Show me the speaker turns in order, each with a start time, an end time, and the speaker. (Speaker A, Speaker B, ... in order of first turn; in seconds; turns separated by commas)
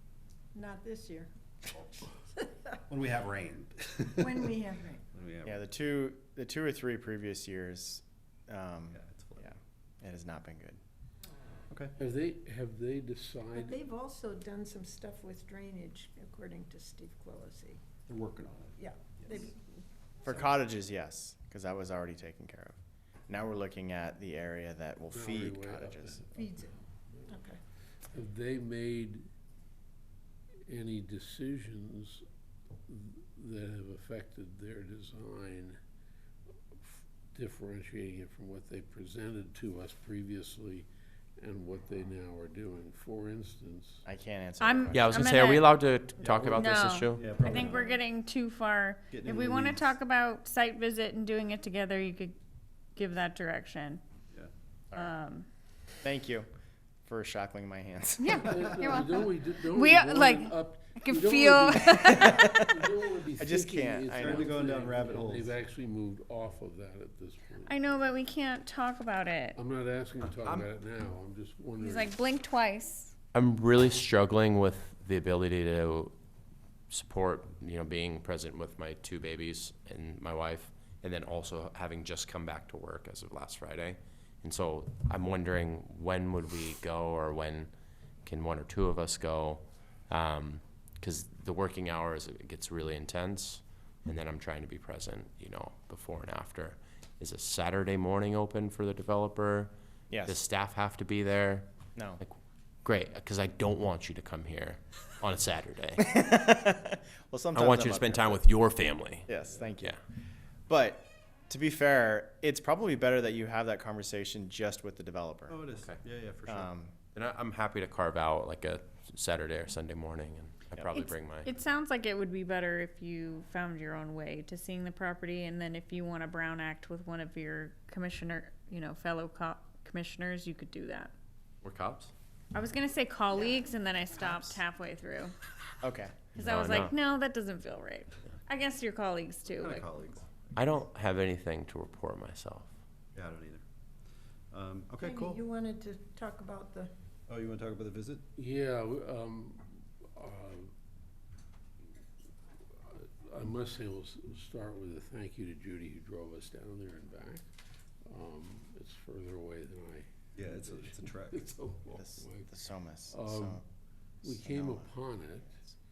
Speaker A: 0.5-2.6, Speaker B: 2.9-4.6, Speaker A: 4.1-5.0, Speaker B: 5.1-5.6, Speaker C: 5.5-10.8, Speaker B: 8.9-9.5, Speaker D: 12.0-13.8, Speaker A: 13.5-17.8, Speaker B: 18.1-19.4, Speaker A: 18.8-19.6, Speaker C: 20.2-22.8, Speaker C: 23.3-26.2, Speaker D: 25.1-27.4, Speaker A: 26.3-26.7, Speaker A: 27.3-27.6, Speaker D: 28.1-29.3, Speaker D: 30.7-32.3, Speaker D: 32.9-35.8, Speaker D: 36.8-44.0, Speaker C: 44.0-45.3, Speaker E: 44.6-45.8, Speaker F: 44.9-47.4, Speaker B: 46.2-48.0, Speaker E: 46.6-52.4, Speaker B: 49.1-49.9, Speaker E: 53.0-54.0, Speaker E: 54.9-55.5, Speaker C: 56.0-56.5, Speaker C: 57.1-58.7, Speaker E: 58.2-62.6, Speaker D: 58.4-67.9, Speaker C: 62.2-62.8, Speaker C: 63.4-64.6, Speaker B: 64.2-65.6, Speaker E: 67.7-69.6, Speaker D: 69.6-72.1, Speaker B: 70.4-70.7, Speaker E: 71.8-73.1, Speaker F: 73.3-76.1, Speaker F: 76.9-87.7, Speaker F: 88.2-99.7, Speaker C: 100.1-100.4, Speaker F: 100.2-101.7, Speaker C: 102.0-102.2, Speaker F: 102.2-106.0, Speaker C: 106.0-108.4, Speaker F: 107.5-109.3, Speaker C: 109.3-110.0, Speaker C: 110.7-115.6, Speaker B: 115.5-116.7, Speaker F: 115.8-116.0, Speaker C: 116.5-117.0, Speaker F: 117.1-121.5, Speaker E: 120.9-131.1, Speaker F: 131.6-132.1, Speaker E: 132.5-135.3, Speaker C: 133.3-134.6, Speaker C: 135.8-136.3, Speaker E: 136.3-139.9, Speaker F: 136.4-136.9, Speaker B: 139.5-140.8, Speaker F: 140.6-142.7, Speaker B: 143.1-143.6, Speaker B: 144.5-145.4, Speaker A: 145.0-146.9, Speaker B: 147.3-148.2, Speaker D: 148.4-150.7, Speaker D: 152.8-157.5, Speaker D: 158.1-162.6, Speaker B: 160.3-161.6, Speaker C: 161.9-163.6, Speaker D: 163.1-163.6, Speaker C: 164.2-165.0, Speaker D: 164.2-165.6